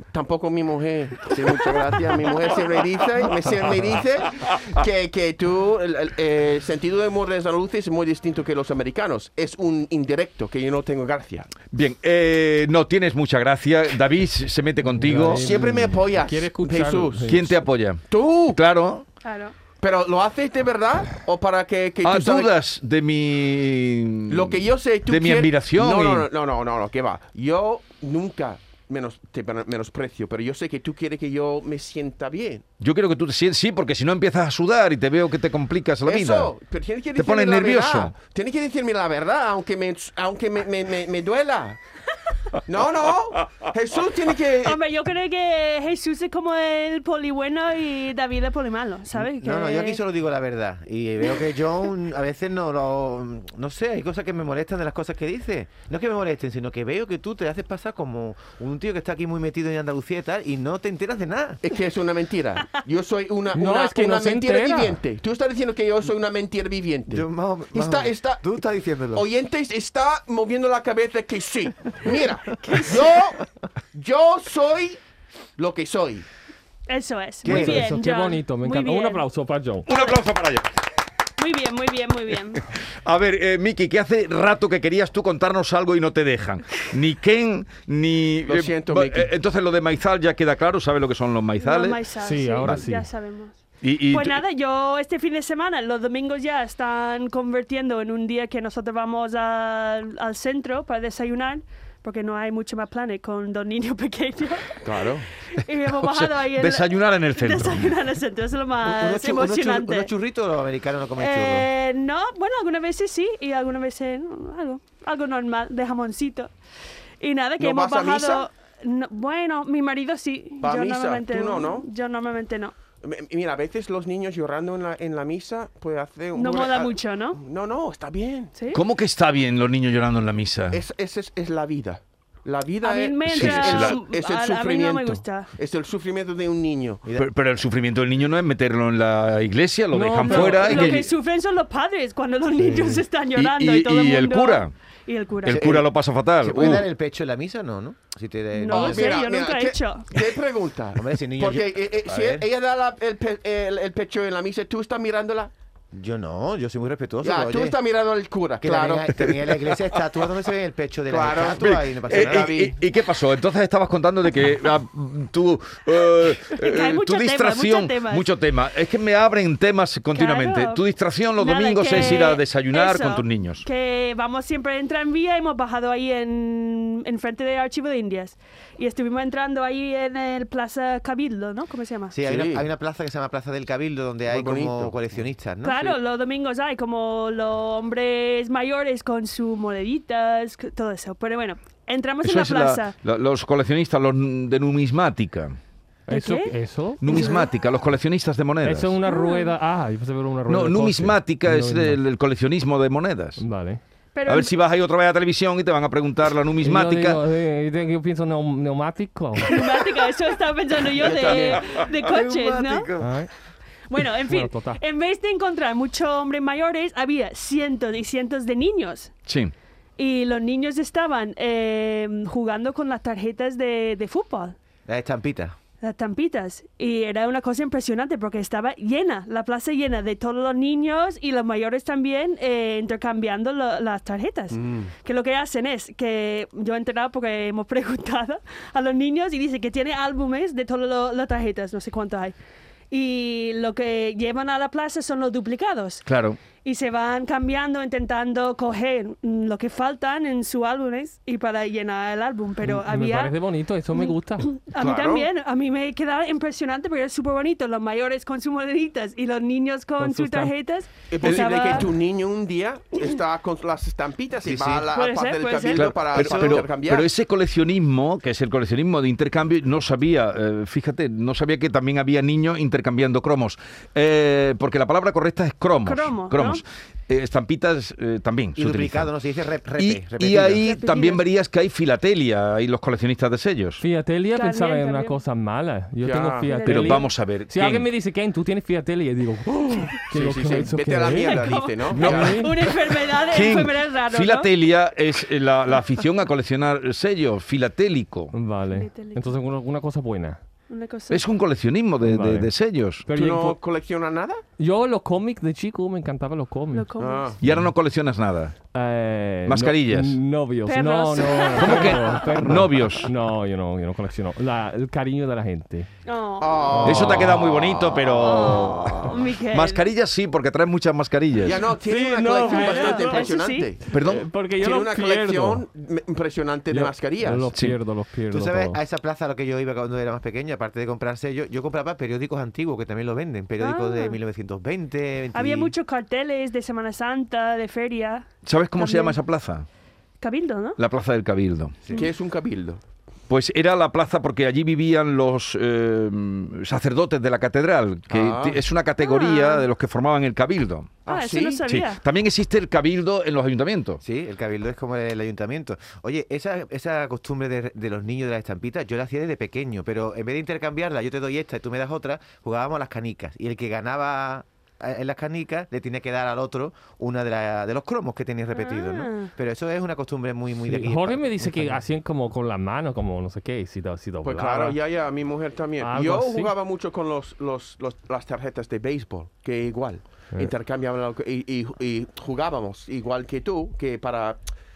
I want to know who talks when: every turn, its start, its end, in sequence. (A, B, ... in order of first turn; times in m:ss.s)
0:00.1-0:11.5 A
0:11.7-0:15.5 B
0:14.8-0:17.6 C
0:15.3-0:17.5 A
0:17.3-0:18.0 B
0:18.1-0:18.6 A
0:18.5-0:19.0 B
0:19.2-0:19.5 D
0:19.8-0:22.5 A
0:22.0-0:26.3 B
0:24.3-0:32.6 A
0:32.8-0:36.5 B
0:36.0-0:41.8 A
0:37.2-0:38.1 B
0:42.7-0:44.8 A
0:44.6-0:50.0 D
0:49.1-1:01.6 E
1:01.6-1:08.4 A
1:03.5-1:05.0 C
1:07.1-1:09.3 E
1:09.1-1:15.0 A
1:12.6-1:13.1 D
1:15.6-1:16.2 A
1:16.9-1:19.2 D
1:17.4-1:17.9 E
1:17.4-1:19.9 C
1:19.9-1:20.7 B
1:19.9-1:20.2 D
1:21.4-1:22.6 D
1:22.9-1:32.0 B
1:28.4-1:29.3 A
1:31.6-1:33.6 D
1:32.2-1:33.0 C
1:32.6-1:32.8 B
1:33.8-1:34.4 B
1:34.1-1:50.1 D
1:44.8-1:45.3 A
1:46.0-1:47.9 B
1:48.8-1:51.7 E
1:51.2-1:56.5 D
1:57.2-2:02.7 D
1:57.6-1:58.4 A
2:00.6-2:01.9 A
2:03.0-2:08.5 A
2:06.3-2:07.4 D
2:08.6-2:08.8 D
2:08.7-2:10.8 B
2:10.7-2:17.0 A
2:12.8-2:15.5 D
2:13.2-2:14.0 B
2:17.2-2:21.1 B
2:19.9-2:20.6 C
2:20.1-2:25.6 D
2:20.3-2:20.9 A
2:22.6-2:22.9 E
2:23.4-2:24.7 B
2:25.4-2:26.9 B
2:25.5-2:29.2 E
2:28.5-2:30.1 D
2:28.7-2:35.5 A
2:31.0-2:32.4 E
2:35.9-2:37.8 E
2:37.2-2:39.4 A
2:38.6-2:42.6 E
2:41.1-2:42.8 A
2:41.6-2:53.6 B
2:46.5-2:48.3 D
2:50.1-2:50.8 D
2:51.4-3:02.2 D
3:02.1-3:06.0 E
3:02.2-3:02.6 A
3:04.3-3:05.2 A
3:05.6-3:13.0 D
3:12.2-3:15.6 B
3:16.1-3:17.4 C
3:16.1-3:17.5 D
3:17.0-3:18.9 B
3:18.6-3:22.0 C
3:19.0-3:19.5 D
3:20.5-3:23.4 B
3:23.4-3:23.8 C
3:24.1-3:24.5 D
3:24.3-3:27.2 B
3:26.6-3:29.5 C
3:29.4-3:32.9 D
3:31.0-3:31.8 A
3:32.0-3:33.1 E
3:33.0-3:33.3 C
3:33.9-3:39.1 D
3:34.2-3:34.8 C
3:39.3-3:39.5 B
3:40.0-3:44.6 D
3:44.9-3:45.5 E
3:45.8-4:02.3 D
3:54.6-3:54.8 A
4:02.9-4:06.0 D
4:06.0-4:06.4 B
4:06.6-4:13.3 D
4:12.6-4:14.5 C
4:13.9-4:21.9 D
4:14.8-4:15.3 A
4:20.0-4:20.5 C
4:21.1-4:27.1 A
4:24.4-4:24.9 E
4:24.9-4:25.9 D
4:25.7-4:39.1 B
4:26.2-4:26.6 E
4:35.8-4:36.6 D
4:38.6-4:40.7 E
4:39.8-4:43.8 B
4:40.6-4:41.2 D
4:43.8-4:52.6 C
4:44.3-4:45.2 D
4:46.0-4:46.5 A
4:46.4-4:47.1 D
4:46.6-4:47.9 B
4:50.1-4:52.4 A
4:51.1-4:54.5 D
4:52.0-4:52.3 B
4:53.3-4:58.3 B
4:58.3-5:00.4 C
4:58.7-4:59.4 D
5:00.7-5:01.2 D
5:01.1-5:03.1 B
5:02.0-5:02.5 C
5:03.0-5:03.6 C
5:03.1-5:04.4 A
5:04.6-5:06.9 C
5:06.7-5:07.4 D
5:07.0-5:07.4 A
5:07.4-5:08.5 B
5:08.7-5:15.9 C
5:09.4-5:10.2 B
5:10.7-5:12.2 D
5:11.6-5:13.1 B
5:16.0-5:16.7 D
5:16.4-5:19.1 A
5:16.8-5:21.6 B
5:18.2-5:19.8 D
5:21.4-5:23.9 A
5:21.8-5:23.3 C
5:22.4-5:23.7 D
5:23.9-5:25.6 C
5:23.9-5:24.3 B
5:24.6-5:27.5 A
5:26.7-5:28.8 C
5:27.5-5:27.8 B
5:28.3-5:35.7 E
5:33.6-5:34.2 D
5:35.3-5:39.2 D
5:38.4-5:39.6 B
5:40.2-5:40.8 D
5:40.8-5:41.8 B
5:41.9-5:42.8 A
5:43.3-5:50.9 B
5:48.1-5:48.6 A
5:49.0-5:49.6 D
5:51.0-5:51.6 A
5:51.1-5:52.0 D
5:51.6-5:54.0 B
5:54.0-6:11.8 E
6:08.5-6:09.3 D
6:10.6-6:14.8 C
6:14.2-6:24.4 A
6:15.8-6:16.5 C